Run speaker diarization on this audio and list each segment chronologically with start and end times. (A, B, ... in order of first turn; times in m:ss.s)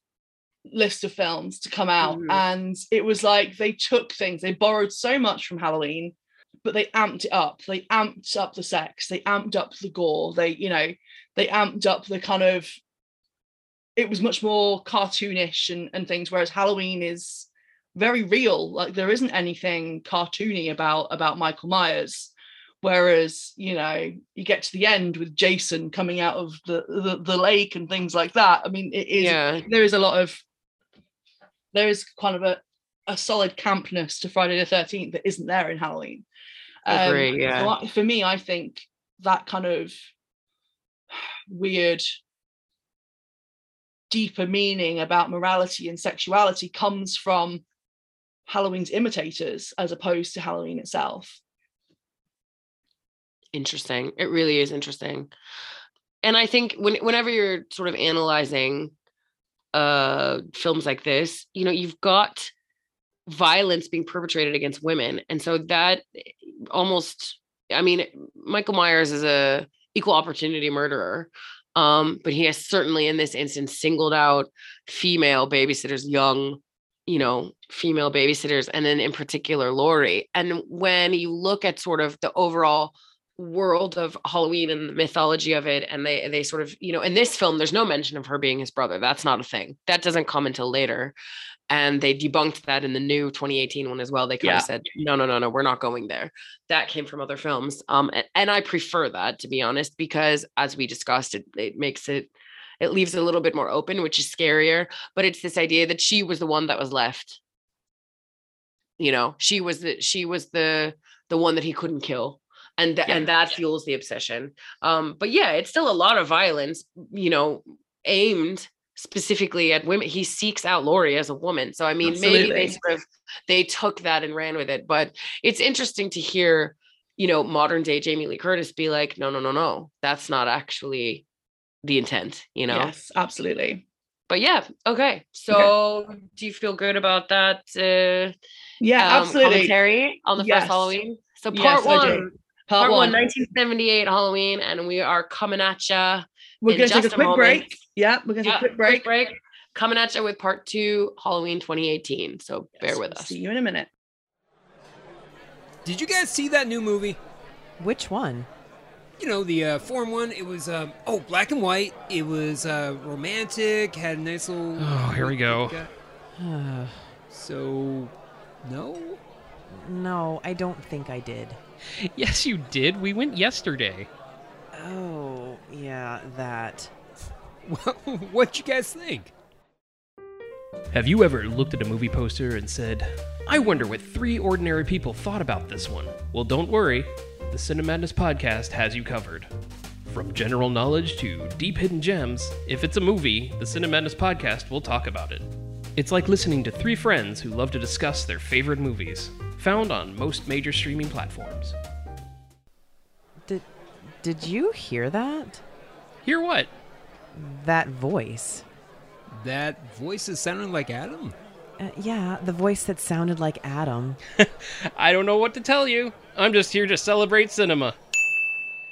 0:00.7-0:12.8 A
0:02.0-0:02.4 B
0:14.0-0:30.4 A
0:29.2-0:29.7 B
0:31.7-0:36.2 A
0:36.8-0:40.0 A
0:36.9-0:37.7 B
0:41.1-0:42.1 A
0:44.1-0:47.6 A
0:48.5-0:51.4 A
0:53.5-0:55.3 B
0:56.2-0:58.9 B
0:59.7-1:02.5 B
1:03.3-1:31.1 B
1:31.7-1:42.3 B
1:34.4-1:34.7 A
1:42.8-1:47.4 B
1:49.0-2:11.2 B
2:02.0-2:02.8 A
2:11.8-2:12.9 B
2:12.7-2:13.8 A
2:14.3-2:18.3 B
2:18.8-2:19.7 A
2:19.0-2:27.7 B
2:20.4-2:20.9 A
2:21.5-2:23.2 A
2:26.6-2:29.1 A
2:28.4-2:33.3 B
2:32.8-2:33.9 A
2:35.8-2:37.2 C
2:37.8-2:38.5 D
2:39.2-2:45.9 C
2:44.8-2:45.8 E
2:46.4-2:47.1 D
2:47.3-2:49.2 C
2:49.7-2:51.6 D
2:52.1-2:54.1 E
2:54.7-2:56.9 D
2:57.6-2:59.3 C
3:00.9-3:09.5 E
3:10.1-3:21.7 E
3:23.4-3:25.6 D
3:26.2-3:26.7 E
3:27.3-3:28.6 D
3:29.4-3:31.3 C
3:31.8-3:34.2 D
3:35.0-3:37.9 E